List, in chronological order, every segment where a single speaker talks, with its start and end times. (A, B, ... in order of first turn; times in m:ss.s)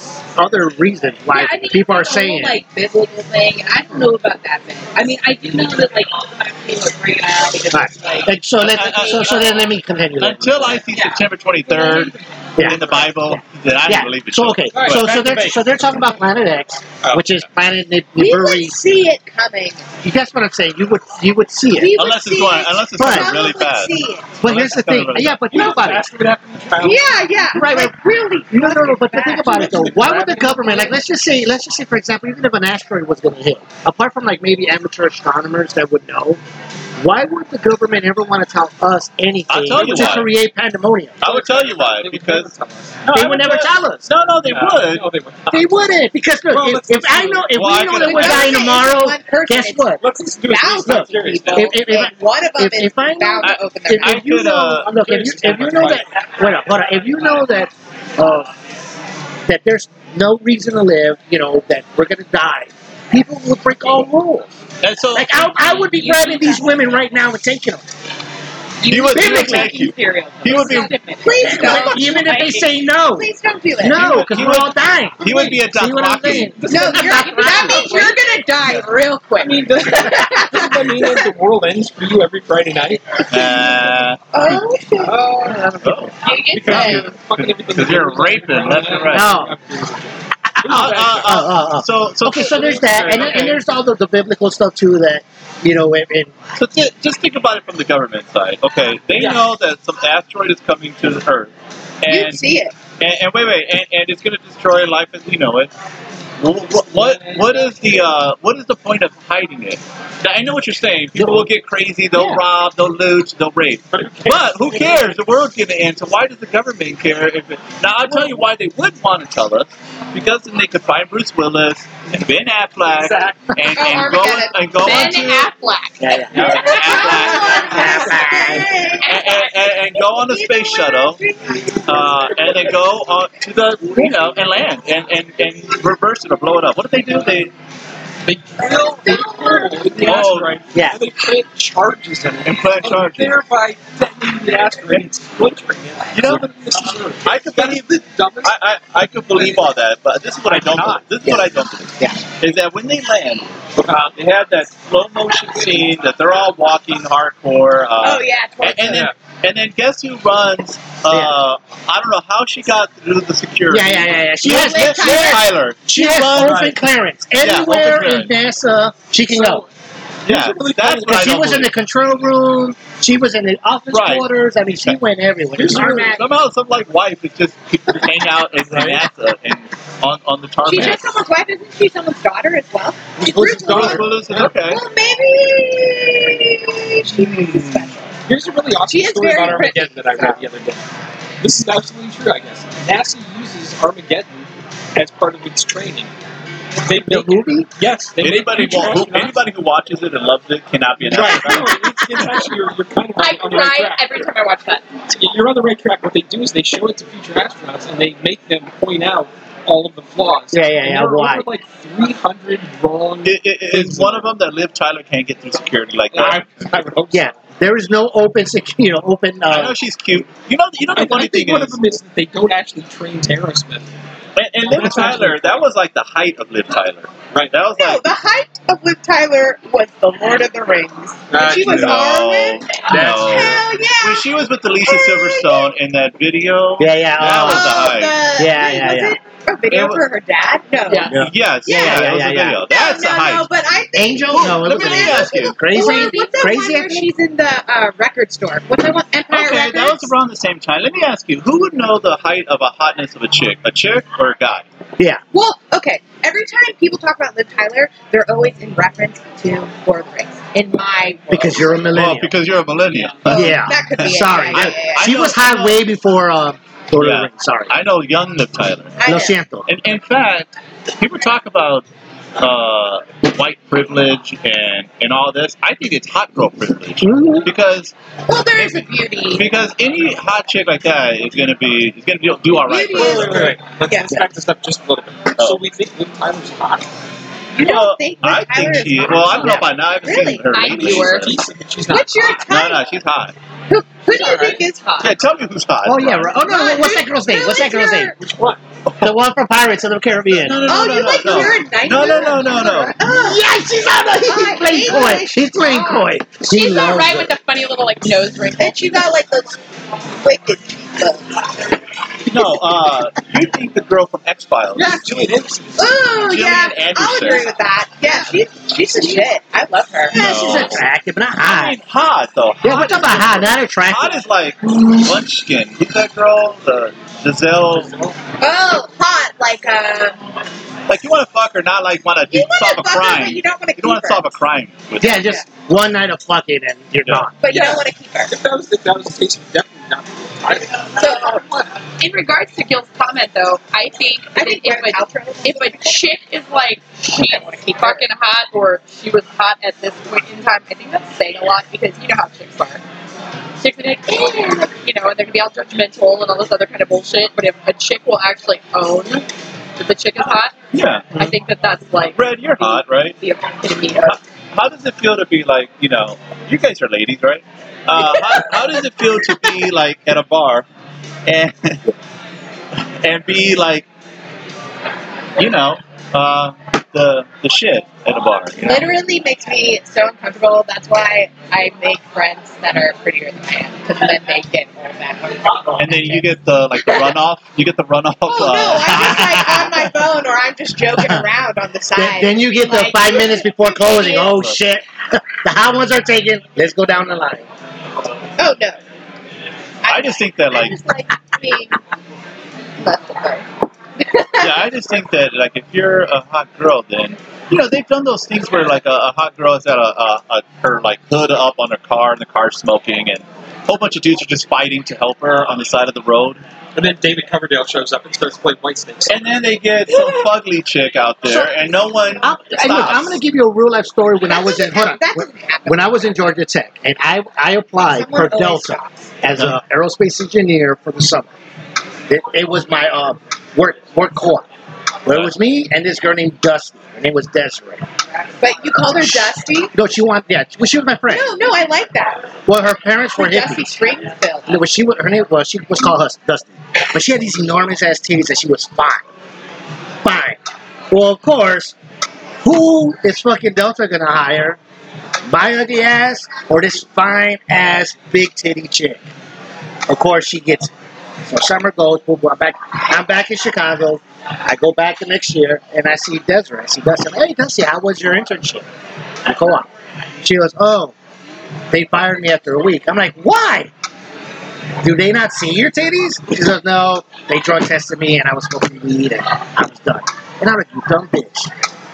0:00.4-0:02.6 A
0:01.3-0:09.5 B
0:07.7-0:10.9 A
0:08.6-0:09.4 C
0:10.2-0:15.4 C
0:10.9-0:12.3 B
0:12.6-0:18.8 A
0:14.7-0:15.7 D
0:17.0-0:17.4 D
0:18.2-0:19.9 E
0:20.0-0:22.0 A
0:21.7-0:24.3 E
0:22.0-0:25.7 C
0:23.0-0:23.5 A
0:24.4-0:26.0 A
0:25.5-0:27.5 D
0:26.8-0:29.9 E
0:27.5-0:36.4 A
0:29.4-0:31.0 D
0:37.0-0:41.2 A
0:39.5-0:40.3 C
0:39.8-0:40.3 D
0:41.2-0:43.1 D
0:41.2-0:45.1 C
0:43.1-0:44.1 A
0:44.4-0:48.3 D
0:45.5-0:50.0 A
0:47.5-0:48.7 C
0:48.0-0:54.2 E
0:50.0-0:51.8 D
0:50.8-0:58.5 A
0:53.4-0:55.0 C
0:54.9-0:56.2 D
0:59.5-1:04.5 A
1:04.8-1:05.7 C
1:05.1-1:07.8 A
1:05.6-1:06.7 B
1:08.8-1:12.7 B
1:08.9-1:11.0 C
1:09.1-1:09.7 A
1:11.2-1:12.3 E
1:11.4-1:17.9 A
1:13.1-1:14.2 E
1:13.9-1:16.5 C
1:15.2-1:15.6 D
1:16.3-1:18.1 D
1:16.7-1:21.3 E
1:17.8-1:18.1 B
1:18.6-1:24.1 D
1:23.3-1:24.2 C
1:24.3-1:25.6 E
1:24.9-1:31.5 D
1:25.8-1:29.4 C
1:26.2-1:27.1 F
1:26.7-1:27.0 A
1:29.1-1:29.5 A
1:30.6-1:33.6 C
1:30.8-1:36.3 A
1:32.3-1:33.6 D
1:36.6-1:42.5 C
1:39.1-1:39.4 D
1:42.1-1:42.7 E
1:43.0-1:45.7 C
1:46.4-2:05.5 C
1:46.8-1:48.1 D
1:51.2-1:51.5 A
1:52.1-1:52.4 A
1:53.9-1:55.2 D
1:58.0-1:58.4 D
2:02.9-2:03.6 D
2:03.7-2:05.1 E
2:04.8-2:06.1 F
2:06.0-2:08.7 A
2:06.3-2:08.3 D
2:06.3-2:08.0 C
2:06.4-2:12.7 E
2:09.0-2:09.5 F
2:09.0-2:11.2 C
2:11.9-2:12.8 D
2:11.9-2:17.5 C
2:14.0-2:14.3 A
2:18.2-2:28.6 D
2:19.1-2:19.7 E
2:20.0-2:20.6 C
2:20.7-2:21.0 A
2:22.4-2:23.4 C
2:26.1-2:26.5 C
2:27.2-2:46.8 C
2:29.3-2:29.7 D
2:30.4-2:31.3 D
2:33.8-2:34.2 D
2:38.0-2:39.1 E
2:43.7-2:49.6 A
2:44.4-2:45.5 E
2:46.3-2:46.8 D
2:47.4-2:48.3 C
2:49.2-2:49.7 D
2:50.2-2:51.7 D
2:50.2-2:51.7 C
2:51.1-2:56.2 A
2:53.9-2:54.3 C
2:55.6-2:56.2 D
2:55.7-3:01.1 C
2:58.6-2:59.0 D
3:00.6-3:08.1 E
3:03.2-3:04.5 D
3:03.7-3:04.8 C
3:08.3-3:10.9 D
3:08.9-3:10.4 E
3:11.4-3:16.1 D
3:16.8-3:19.4 D
3:17.0-3:17.7 A
3:18.2-3:21.9 C
3:21.0-3:24.3 D
3:21.1-3:22.4 A
3:23.2-3:24.8 F
3:25.1-3:34.3 D
3:30.5-3:31.5 A
3:33.2-3:36.6 C
3:36.1-3:37.4 D
3:37.1-3:39.8 A
3:39.5-3:41.8 C
3:40.9-3:43.9 D
3:44.4-3:48.0 C
3:44.6-3:45.6 D
3:47.7-3:54.3 E
3:51.3-3:52.1 D
3:51.4-3:58.2 C
3:52.9-3:53.4 A
3:54.8-3:55.7 E
3:56.8-3:59.2 A
3:57.4-4:02.1 E
3:59.7-4:00.0 C
4:00.9-4:01.2 F
4:01.1-4:02.6 A
4:01.2-4:03.5 C
4:02.6-4:10.1 E
4:03.9-4:07.1 A
4:04.3-4:05.7 C
4:05.7-4:06.2 F
4:09.3-4:14.6 C
4:15.3-4:21.9 E
4:21.3-4:22.3 A
4:21.9-4:25.8 C
4:23.2-4:25.1 E
4:23.3-4:27.7 A
4:27.0-4:28.9 C
4:29.0-4:29.4 E
4:29.0-4:29.6 A
4:29.6-4:31.8 C
4:32.4-4:37.9 C
4:37.0-4:37.5 A
4:38.3-4:39.5 E
4:38.6-4:43.6 C
4:42.6-4:44.2 E
4:42.6-4:46.9 D
4:45.4-4:45.6 C
4:47.5-4:51.0 E
4:47.6-4:51.4 C
4:49.4-4:49.7 A
4:50.5-4:51.3 F
4:50.6-4:52.5 D
4:51.9-4:52.9 E
4:52.5-4:53.3 C
4:53.7-4:55.1 E
4:54.1-4:54.6 D
4:55.0-4:56.4 C
4:55.8-4:58.1 A
4:56.4-4:58.1 E
4:58.1-4:58.6 D
4:58.9-4:59.1 C
4:59.0-5:00.6 A
5:00.3-5:02.9 C
5:00.6-5:03.4 E
5:03.0-5:07.3 A
5:04.2-5:06.1 E
5:06.4-5:09.1 F
5:08.6-5:09.6 E
5:10.2-5:11.7 E
5:12.2-5:15.1 C
5:14.7-5:16.1 D
5:15.8-5:20.7 E
5:16.2-5:17.5 C
5:20.1-5:20.8 C
5:20.1-5:21.8 A
5:21.4-5:27.9 C
5:22.6-5:24.2 A
5:27.6-5:28.2 D
5:28.4-5:30.2 E
5:30.9-5:35.4 C
5:32.3-5:34.3 E
5:35.0-5:37.3 A
5:35.2-5:35.4 E
5:37.4-5:38.3 E
5:37.4-5:41.7 D
5:41.0-5:41.4 E
5:42.0-5:52.8 F
5:44.3-5:46.0 E
5:47.1-5:48.0 E
5:53.6-6:04.2 F
6:00.7-6:01.3 C
6:02.1-6:03.2 C
6:04.0-6:10.6 C
6:11.2-6:11.9 C
6:13.0-6:13.9 C
6:15.4-6:18.9 C
6:18.6-6:26.3 E
6:25.8-6:29.4 C
6:26.8-6:27.1 E
6:28.3-6:34.3 E
6:28.9-6:29.8 A
6:31.0-6:31.2 A
6:31.9-6:37.5 A
6:34.3-6:34.6 C
6:38.4-6:38.8 E
6:39.8-6:41.8 E
6:39.9-6:40.8 C
6:42.8-6:43.4 E
6:44.0-6:44.6 E
6:44.4-6:56.4 C
6:56.7-6:59.3 D
6:59.1-7:03.2 C
7:02.2-7:11.3 A
7:04.3-7:06.1 E
7:07.8-7:09.1 E
7:12.1-7:14.4 A
7:15.0-7:17.8 A
7:18.4-7:19.7 E
7:19.0-7:21.3 A
7:21.1-7:22.3 E
7:22.4-7:23.8 A
7:23.2-7:24.6 E
7:24.5-7:29.0 A
7:30.0-7:31.7 A
7:32.4-7:34.6 A
7:35.2-7:39.0 A
7:39.9-7:40.7 A
7:41.2-7:48.7 A
7:49.2-7:50.9 A
7:51.7-7:53.7 A
7:54.8-8:01.5 A